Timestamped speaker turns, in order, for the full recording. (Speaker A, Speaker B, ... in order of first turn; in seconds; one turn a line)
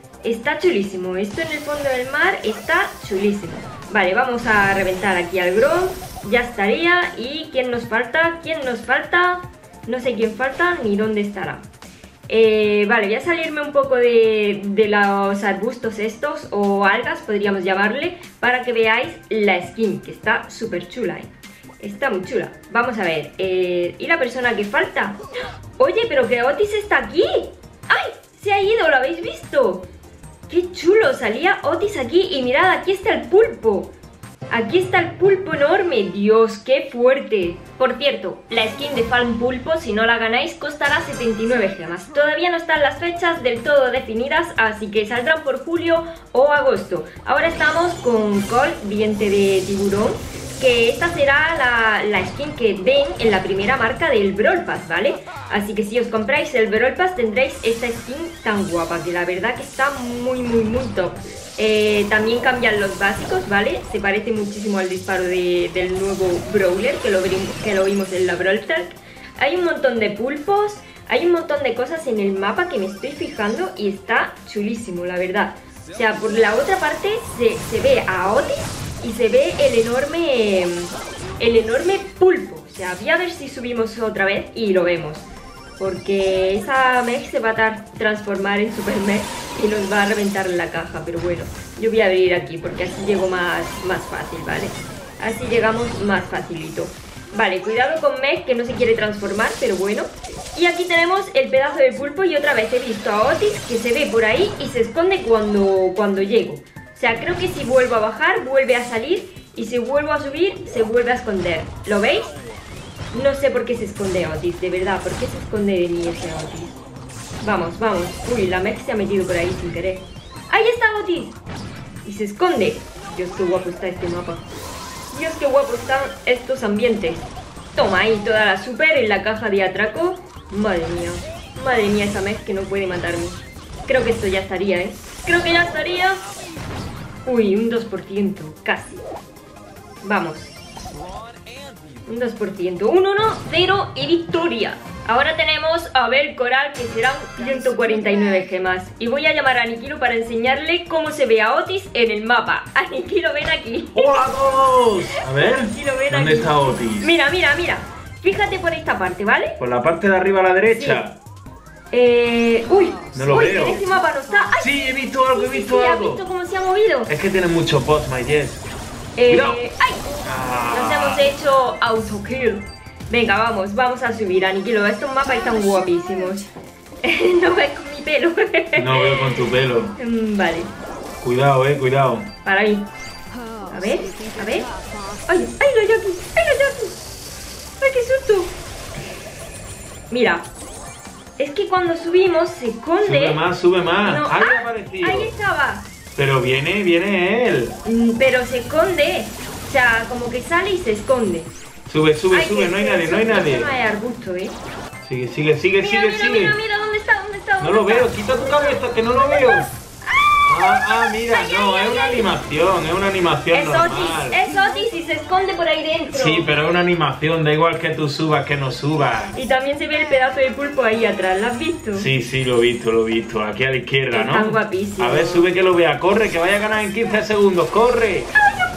Speaker A: 0.2-11.6
Speaker A: 12.3-21.3
Speaker A: 21.8-25.2
Speaker A: 25.8-29.9
Speaker A: 30.5-33.9
Speaker A: 34.5-85.3
Speaker A: 85.8-112.4
Speaker A: 113.1-116.8
Speaker A: 117.4-121.4
Speaker A: 122.0-124.4
Speaker A: 125.1-136.2
Speaker A: 137.2-139.0
Speaker A: 140.0-140.5
Speaker A: 142.1-154.2
Speaker B: 153.9-157.1
Speaker A: 155.0-159.6
Speaker B: 159.6-161.2
Speaker A: 160.8-161.0
Speaker A: 161.9-167.1
Speaker B: 163.1-163.8
Speaker B: 164.6-166.2
Speaker B: 167.1-168.6
Speaker A: 169.2-176.4
Speaker B: 169.3-169.6
Speaker B: 170.2-171.3
Speaker A: 177.0-179.4
Speaker B: 178.8-179.9
Speaker A: 179.9-180.7
Speaker B: 181.2-182.3
Speaker A: 182.4-182.9
Speaker A: 183.7-184.7
Speaker A: 185.3-187.0
Speaker A: 187.8-188.5
Speaker A: 190.1-190.4
Speaker A: 191.4-195.9
Speaker B: 193.0-195.3
Speaker B: 196.2-197.8
Speaker A: 197.8-201.5
Speaker B: 201.9-203.7
Speaker A: 202.3-204.5
Speaker B: 205.0-206.6
Speaker A: 205.8-212.3
Speaker B: 207.6-209.7
Speaker B: 210.5-214.4
Speaker A: 213.5-216.5
Speaker B: 216.1-219.3
Speaker A: 219.3-222.1
Speaker B: 221.9-228.3
Speaker A: 224.1-225.5